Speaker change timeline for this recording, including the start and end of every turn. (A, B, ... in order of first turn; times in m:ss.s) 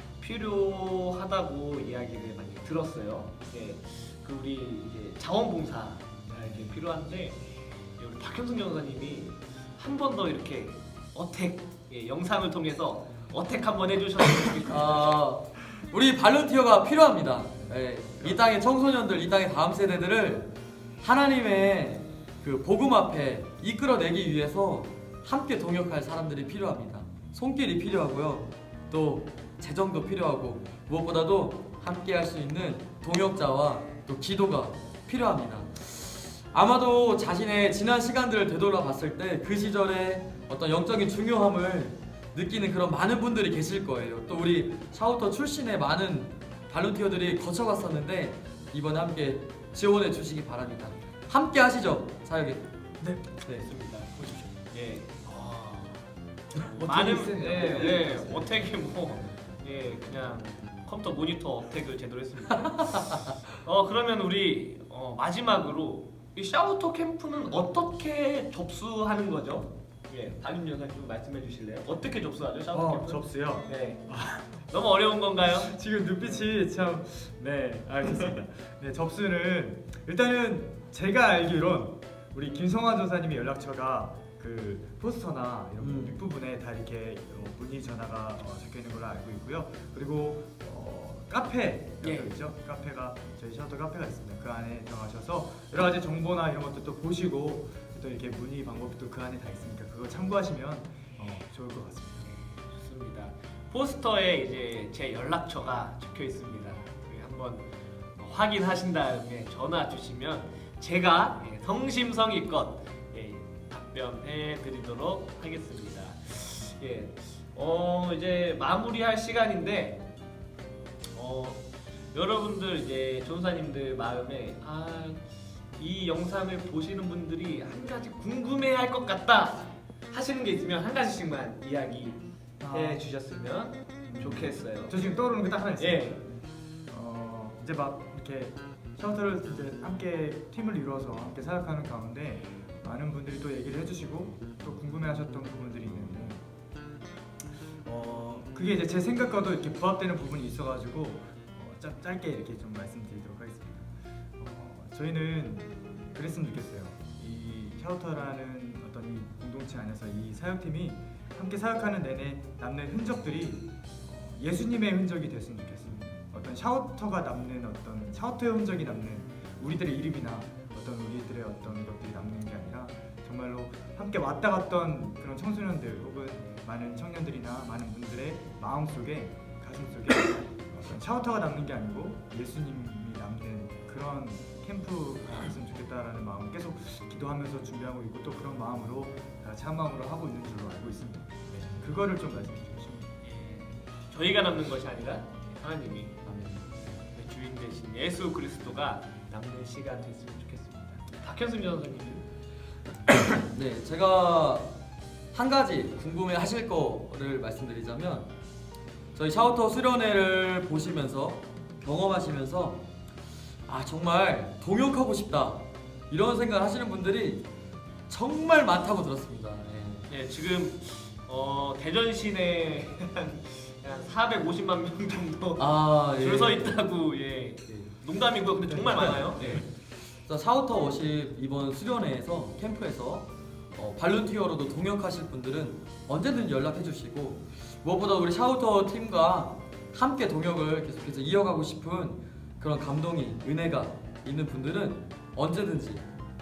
0:00.2-0:07.4 A
0:06.3-0:06.7 B
0:08.0-0:15.2 A
0:14.7-0:20.5 C
0:21.0-0:52.6 C
0:53.0-0:53.4 B
0:53.4-0:56.0 A
0:56.6-1:14.0 A
0:56.7-0:59.3 B
1:12.7-1:14.6 B
1:14.7-1:15.7 A
1:15.5-1:42.3 B
1:25.8-1:26.2 C
1:32.0-1:32.3 A
1:42.2-2:00.0 A
2:01.1-2:05.2 A
2:05.7-2:15.1 A
2:12.6-2:13.0 B
2:14.0-2:16.4 B
2:15.8-2:16.2 A
2:16.9-2:26.4 B
2:27.9-2:28.3 C
2:28.4-3:13.1 B
3:13.2-3:16.2 A
3:16.3-3:16.7 C
3:17.0-3:22.2 A
3:23.3-3:24.7 C
3:25.3-3:28.3 C
3:29.1-3:32.8 C
3:33.7-3:37.4 C
3:38.1-3:40.1 C
3:40.1-3:49.6 A
3:45.6-3:46.8 C
3:48.7-3:49.6 B
3:49.4-3:49.6 C
3:50.2-4:06.0 C